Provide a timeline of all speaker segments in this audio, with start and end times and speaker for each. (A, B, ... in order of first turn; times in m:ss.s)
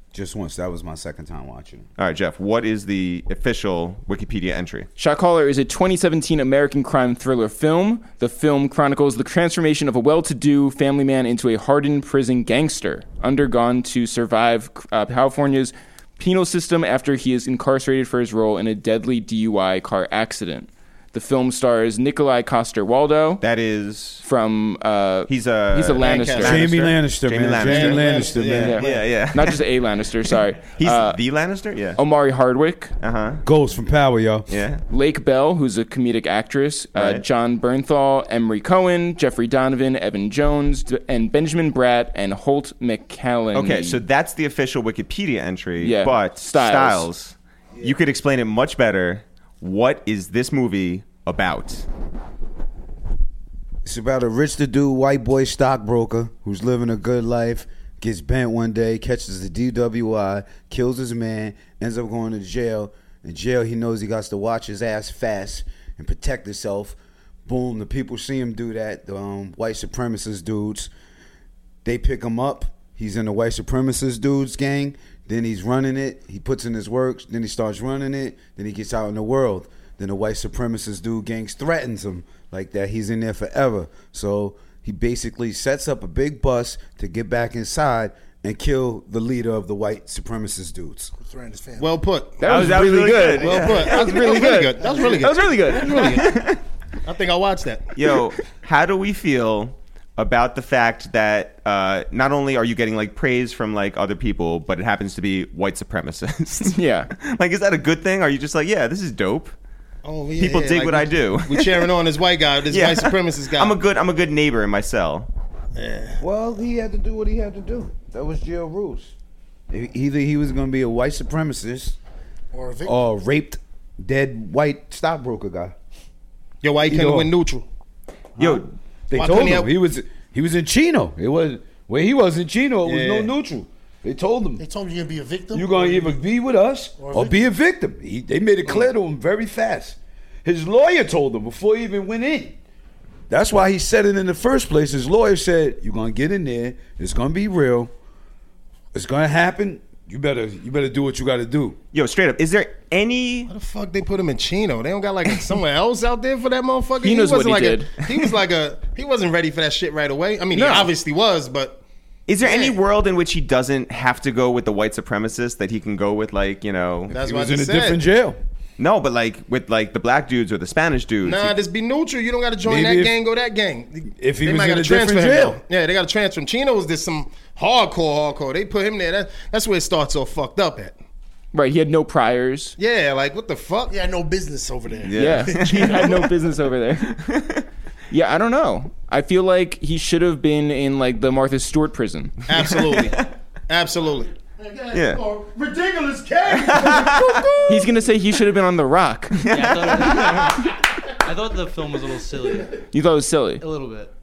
0:00.1-0:01.9 A
0:02.0-0:04.9 B
0:05.0-0:23.4 C
0:23.4-0:24.2 B
0:24.2-0:26.6 C
0:25.3-0:29.6 B
0:26.0-0:26.6 D
0:26.4-0:28.8 A
0:27.6-0:29.1 D
0:28.5-0:31.2 C
0:30.6-0:32.0 B
0:32.0-0:32.9 C
0:33.0-0:33.4 B
0:33.4-0:34.5 A
0:34.5-0:34.8 B
0:34.9-0:44.0 C
0:36.9-0:37.2 B
0:43.5-0:51.9 B
0:45.8-0:47.1 C
0:53.8-1:10.9 A
1:11.8-1:31.1 A
1:31.2-1:32.0 E
1:31.8-1:36.5 D
1:32.4-1:36.4 C
1:32.4-1:34.1 B
1:34.8-1:35.1 E
1:36.0-1:36.6 B
1:37.0-1:37.9 D
1:38.0-1:49.5 B
1:46.7-1:47.1 C
1:50.0-1:53.8 D
1:50.4-1:51.9 B
1:52.7-1:55.3 B
1:55.8-1:56.2 D
1:56.2-1:59.1 A
1:59.7-2:02.0 A
2:02.5-2:03.0 E
2:02.8-2:05.8 A
2:06.6-2:07.7 D
2:06.9-2:07.3 A
2:08.4-2:08.7 B
2:08.4-2:14.6 A
2:09.1-2:09.7 D
2:12.8-2:13.3 D
2:14.6-2:16.2 E
2:15.5-2:22.6 A
2:17.0-2:17.5 E
2:23.3-2:27.9 A
2:28.9-2:31.8 A
2:31.9-2:33.5 B
2:33.5-2:41.8 D
2:37.0-2:37.9 C
2:40.5-2:40.9 C
2:42.3-2:47.2 B
2:42.4-2:42.8 D
2:47.1-2:48.0 D
2:47.1-2:48.4 A
2:48.8-2:51.6 B
2:51.2-3:01.0 D
2:52.6-2:53.2 A
2:54.2-2:55.6 A
3:01.5-3:02.8 C
3:02.8-3:04.0 D
3:03.9-3:06.3 E
3:05.0-3:06.2 B
3:05.2-3:07.4 C
3:07.3-3:07.6 B
3:08.1-3:12.4 C
3:12.5-3:14.4 D
3:12.5-3:13.2 B
3:14.6-3:17.9 E
3:14.9-3:15.2 B
3:16.5-3:17.5 B
3:17.7-3:19.6 C
3:19.4-3:20.4 B
3:19.4-3:22.9 F
3:22.9-3:23.6 C
3:23.6-3:24.1 F